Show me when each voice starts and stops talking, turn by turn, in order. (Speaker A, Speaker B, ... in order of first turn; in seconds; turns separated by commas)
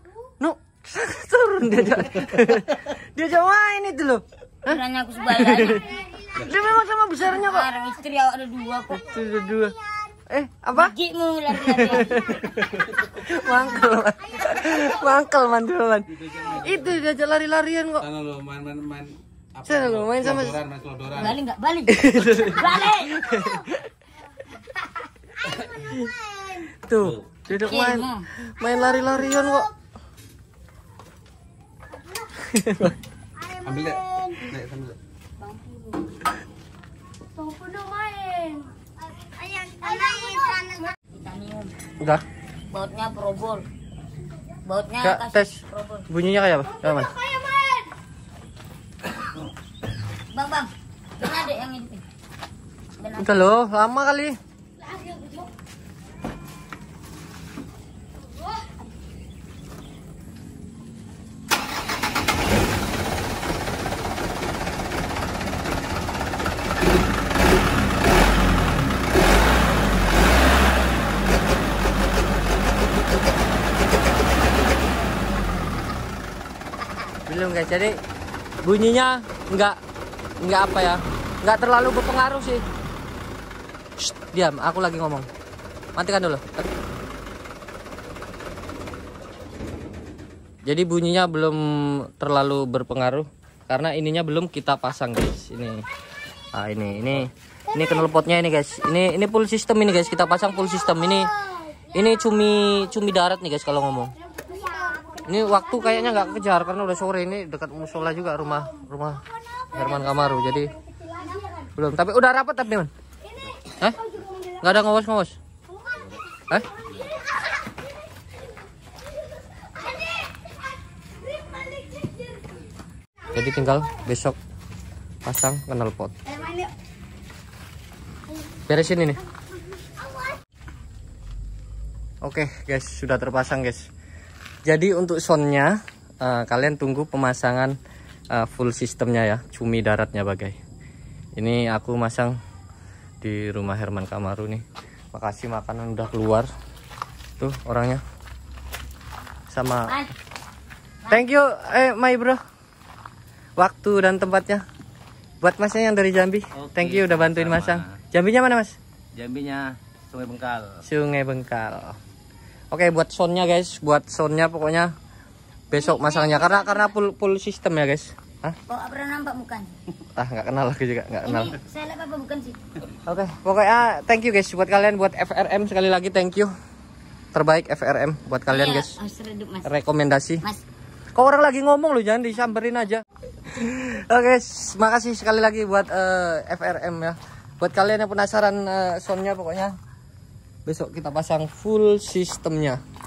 Speaker A: 0.4-4.8, Speaker B: 4.7-6.0, Speaker A: 5.3-7.7, Speaker C: 6.3-6.6, Speaker B: 7.2-9.0, Speaker A: 8.9-9.8, Speaker A: 10.3-10.9, Speaker B: 10.7-12.4, Speaker A: 11.7-18.0, Speaker C: 16.1-17.0, Speaker C: 18.0-21.4, Speaker A: 19.6-20.6, Speaker B: 21.1-23.2, Speaker A: 21.9-23.9, Speaker A: 25.7-26.1, Speaker A: 26.9-29.7, Speaker C: 27.0-27.3, Speaker B: 27.5-28.3, Speaker A: 32.4-32.9, Speaker C: 33.6-35.0, Speaker B: 37.6-38.5, Speaker B: 39.4-41.7, Speaker B: 42.7-43.6, Speaker B: 44.6-46.1, Speaker A: 45.0-47.2, Speaker B: 50.3-52.0, Speaker B: 53.0-53.5, Speaker A: 53.2-54.4, Speaker A: 77.3-78.0, Speaker A: 78.6-79.8, Speaker A: 80.4-82.6, Speaker A: 84.0-85.3, Speaker A: 86.0-86.6, Speaker A: 90.7-95.8, Speaker A: 96.5-101.3, Speaker A: 101.9-104.1, Speaker A: 105.2-109.2, Speaker A: 109.7-110.7, Speaker A: 111.8-112.9, Speaker A: 114.6-115.4, Speaker A: 123.3-124.4, Speaker A: 125.2-126.1, Speaker A: 128.7-129.2, Speaker A: 132.2-133.9, Speaker A: 134.7-137.7, Speaker A: 138.3-140.6, Speaker A: 141.4-142.3, Speaker A: 143.2-146.5, Speaker A: 147.4-148.0, Speaker A: 149.5-149.9, Speaker A: 151.1-152.4, Speaker A: 153.6-154.6, Speaker A: 155.4-158.8, Speaker C: 156.5-158.0, Speaker C: 159.1-160.8, Speaker A: 160.9-162.0, Speaker A: 162.7-164.9, Speaker A: 165.7-168.6, Speaker B: 165.7-166.9, Speaker B: 168.7-169.7, Speaker A: 170.2-171.6, Speaker B: 171.2-172.6, Speaker A: 173.0-176.5, Speaker A: 177.3-178.9, Speaker B: 178.5-179.7, Speaker A: 179.6-180.4, Speaker A: 181.1-189.7, Speaker A: 190.7-192.8